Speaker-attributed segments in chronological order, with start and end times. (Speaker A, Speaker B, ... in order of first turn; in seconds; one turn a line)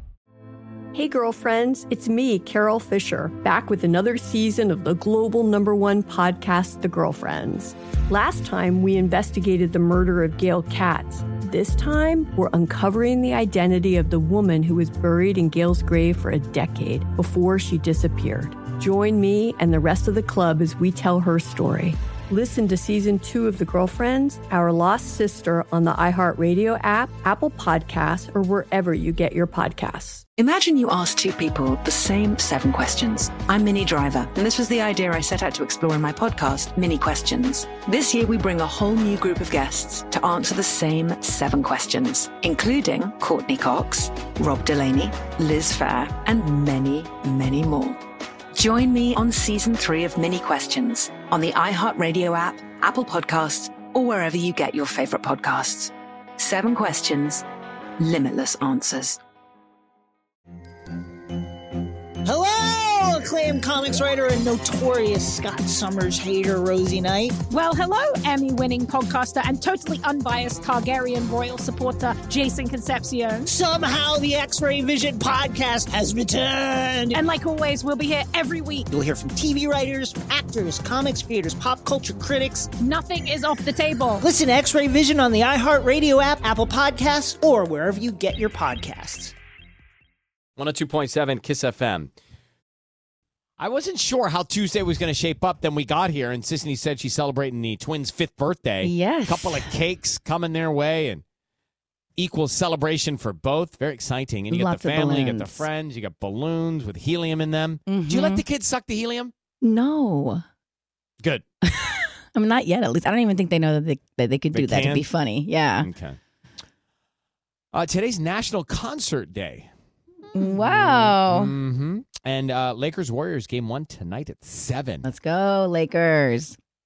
Speaker A: 0.9-30.2
Speaker B: 30.4-48.0
Speaker B: 48.5-57.4
Speaker B: 58.0-59.2
Speaker C: 62.2-67.4
Speaker D: 67.5-73.5
Speaker C: 73.5-77.2
Speaker D: 77.1-78.9
Speaker C: 78.9-82.7
Speaker D: 82.8-84.2
Speaker C: 84.2-89.3
Speaker E: 90.6-92.1
Speaker E: 93.6-101.2
Speaker F: 98.8-99.7
Speaker E: 102.2-109.3
Speaker F: 104.5-105.7
Speaker F: 107.9-108.4
Speaker F: 109.6-110.4
Speaker F: 111.6-115.9
Speaker E: 114.5-115.1
Speaker E: 115.8-116.2
Speaker E: 117.7-119.7
Speaker F: 120.3-121.5
Speaker E: 120.4-125.0
Speaker F: 125.0-126.6